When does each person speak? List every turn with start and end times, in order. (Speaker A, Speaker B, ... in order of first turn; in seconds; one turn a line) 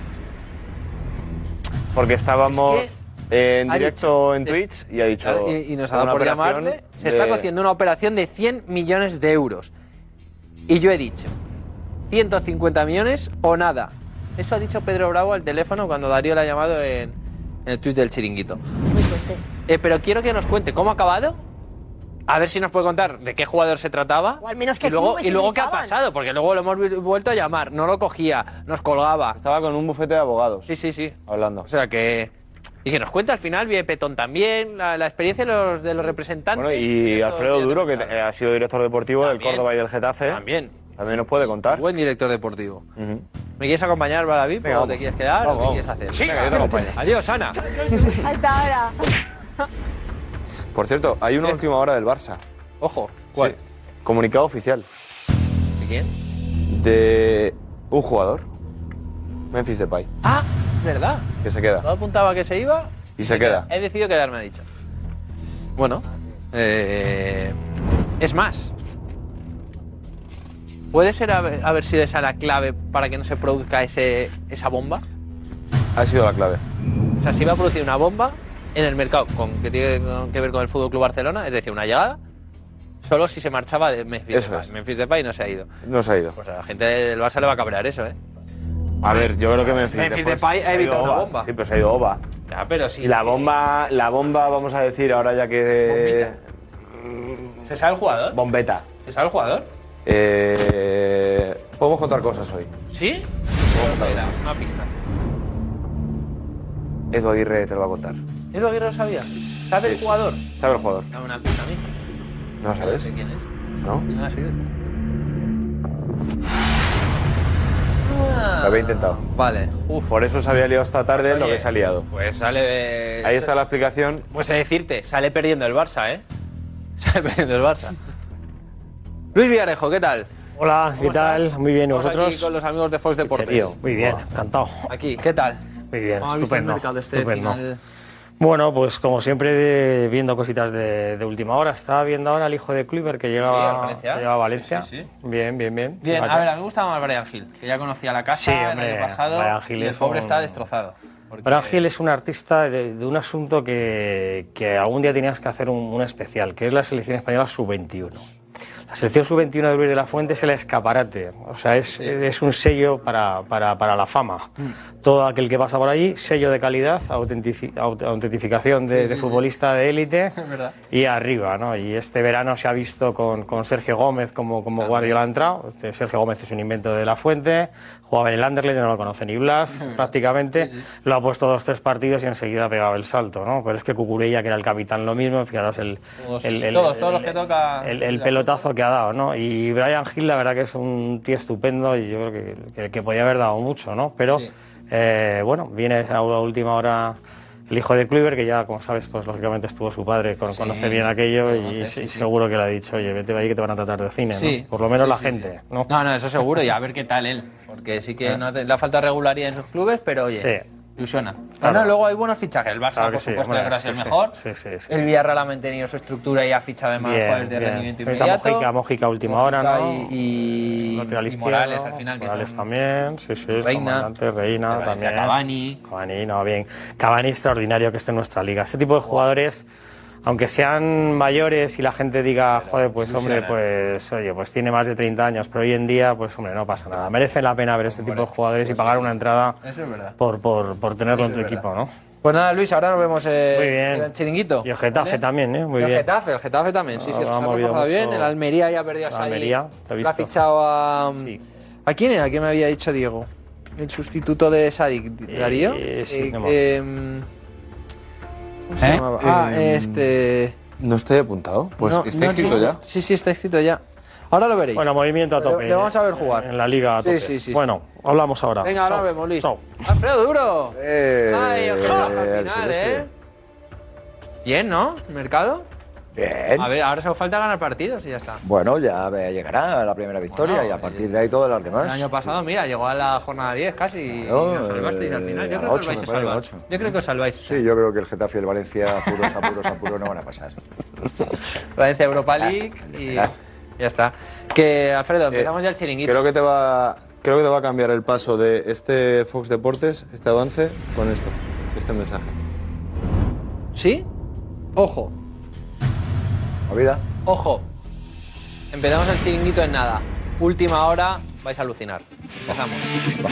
Speaker A: 1.9-7.5
Speaker B: 2.5-2.9
Speaker B: 3.7-4.6
Speaker B: 5.2-9.7
Speaker B: 10.7-11.3
Speaker B: 12.1-17.1
Speaker B: 17.7-18.6
Speaker C: 18.9-19.4
Speaker B: 19.7-21.4
Speaker B: 22.3-29.4
Speaker C: 24.4-25.9
Speaker A: 29.4-30.7
Speaker B: 30.7-31.2
Speaker A: 31.3-31.7
Speaker B: 31.7-32.3
Speaker B: 32.9-38.1
Speaker A: 36.5-40.4
Speaker B: 39.2-39.7
Speaker B: 40.3-40.8
Speaker A: 41.0-41.9
Speaker B: 41.4-42.9
Speaker A: 43.0-43.2
Speaker B: 43.6-47.6
Speaker A: 44.6-47.0
Speaker C: 48.2-49.1
Speaker A: 50.7-52.4
Speaker B: 52.8-53.6
Speaker A: 53.4-54.9
Speaker B: 55.8-56.1
Speaker A: 56.7-58.5
Speaker A: 59.5-60.1
Speaker B: 60.2-61.3
Speaker A: 61.4-61.9
Speaker B: 61.8-64.7
Speaker A: 63.2-63.7
Speaker B: 65.8-67.6
Speaker B: 68.2-68.7
Speaker B: 70.9-75.0
Speaker A: 76.0-76.6
Speaker B: 77.2-82.2
Speaker B: 83.0-85.7
Speaker A: 84.3-84.7
Speaker A: 85.8-86.4
Speaker B: 86.4-88.2
Speaker A: 89.0-92.2
Speaker B: 89.1-91.5
Speaker B: 92.5-93.5
Speaker A: 93.0-96.4
Speaker B: 95.8-96.3
Speaker A: 97.0-97.5
Speaker B: 97.7-98.4
Speaker A: 98.3-98.8
Speaker B: 99.0-99.7
Speaker A: 100.1-102.7
Speaker B: 102.9-104.9
Speaker A: 103.7-104.4
Speaker A: 107.1-108.2
Speaker B: 108.5-110.5
Speaker A: 110.5-111.1
Speaker B: 111.1-111.9
Speaker A: 112.6-113.1
Speaker B: 112.8-113.5
Speaker B: 114.1-114.6
Speaker B: 118.0-120.1
Speaker A: 118.6-119.2
Speaker A: 120.1-122.1
Speaker B: 121.2-123.5
Speaker A: 123.2-124.3
Speaker B: 124.3-126.2
Speaker B: 127.0-128.0
Speaker B: 129.3-130.3
Speaker D: 130.6-132.5
Speaker B: 131.0-134.2
Speaker D: 133.2-134.8
Speaker B: 134.9-135.6
Speaker D: 135.9-137.6
Speaker B: 136.2-137.8
Speaker D: 138.4-146.5
Speaker B: 143.4-145.1
Speaker B: 146.0-151.8
Speaker D: 148.3-150.6
Speaker D: 151.4-158.3
Speaker D: 158.9-164.5
Speaker D: 165.0-170.3
Speaker B: 168.9-169.5
Speaker B: 170.4-170.8
Speaker D: 170.9-197.2
Speaker B: 174.8-175.2
Speaker B: 179.7-180.8
Speaker B: 186.2-188.7
Speaker D: 197.7-205.9
Speaker B: 200.5-202.3
Speaker B: 204.3-218.7
Speaker D: 210.4-210.7
Speaker D: 211.6-211.9
Speaker D: 212.9-215.0
Speaker D: 217.0-220.2
Speaker B: 219.2-222.7
Speaker D: 220.9-229.7
Speaker B: 223.6-224.1
Speaker B: 224.7-225.8
Speaker D: 230.2-239.6
Speaker B: 232.5-233.6
Speaker B: 237.8-240.2
Speaker D: 240.2-241.9
Speaker B: 241.1-241.7
Speaker B: 242.2-245.2
Speaker D: 243.5-244.1
Speaker D: 244.6-246.1
Speaker B: 245.8-257.3
Speaker D: 246.9-248.3
Speaker D: 249.1-250.3
Speaker D: 255.3-256.6
Speaker B: 258.8-260.6
Speaker A: 258.8-260.1
Speaker A: 260.8-262.8
Speaker B: 261.8-266.5
Speaker D: 264.8-269.6
Speaker B: 267.0-267.7
Speaker B: 268.6-273.1
Speaker E: 271.0-272.9
Speaker B: 274.4-275.7
Speaker E: 276.2-276.7
Speaker B: 276.6-278.4
Speaker E: 278.4-282.1
Speaker B: 280.3-281.2
Speaker B: 281.7-287.6
Speaker E: 284.3-286.6
Speaker E: 287.5-290.5
Speaker B: 291.8-296.2
Speaker A: 296.0-302.4
Speaker B: 303.8-304.1
Speaker B: 304.8-305.1
Speaker B: 307.3-307.7
Speaker B: 308.7-312.9